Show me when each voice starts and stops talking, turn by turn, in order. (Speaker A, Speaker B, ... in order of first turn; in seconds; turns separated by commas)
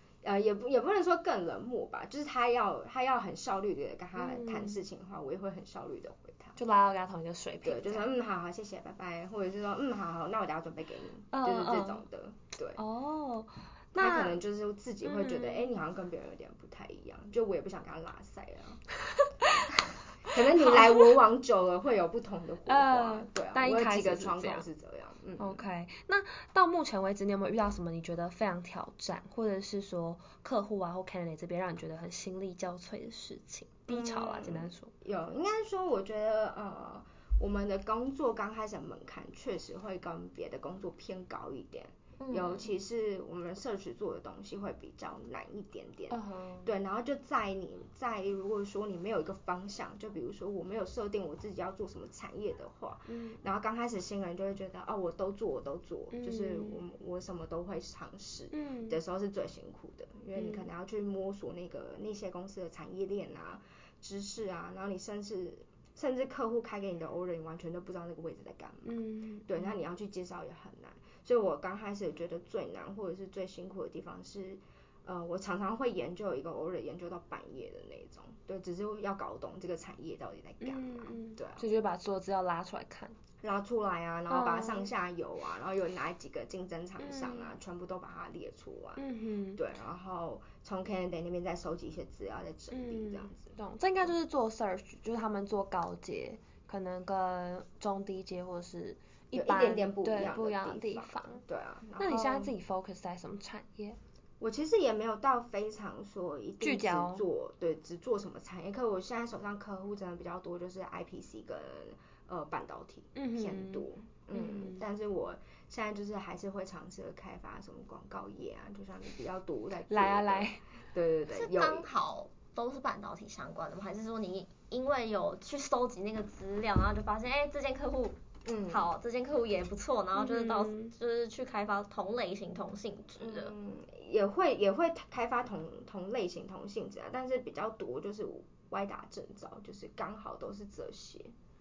Speaker A: 0.2-6.6, Speaker B: 4.2-4.8, Speaker B: 6.6-8.1, Speaker A: 7.6-12.8, Speaker B: 11.3-12.0, Speaker B: 12.8-14.3, Speaker A: 13.9-18.8, Speaker B: 15.0-15.7, Speaker A: 20.3-25.6, Speaker B: 20.6-21.1, Speaker B: 22.7-24.6, Speaker B: 25.4-34.9, Speaker A: 33.9-81.7, Speaker C: 42.2-42.7, Speaker B: 46.1-46.7, Speaker B: 53.1-53.4, Speaker B: 56.1-56.8, Speaker B: 58.5-59.0, Speaker B: 60.3-60.6, Speaker B: 68.8-69.6, Speaker B: 80.6-83.2, Speaker A: 83.4-89.0, Speaker B: 84.3-84.9, Speaker B: 87.0-87.5, Speaker B: 89.0-89.6, Speaker A: 89.5-93.5, Speaker B: 92.7-101.4, Speaker A: 99.3-102.5, Speaker B: 102.0-104.0, Speaker A: 104.4-121.9, Speaker B: 106.6-107.2, Speaker B: 113.2-114.8, Speaker B: 119.9-120.6, Speaker C: 121.3-128.2, Speaker A: 128.4-128.9, Speaker C: 128.7-133.5, Speaker B: 130.1-130.9, Speaker A: 133.2-141.3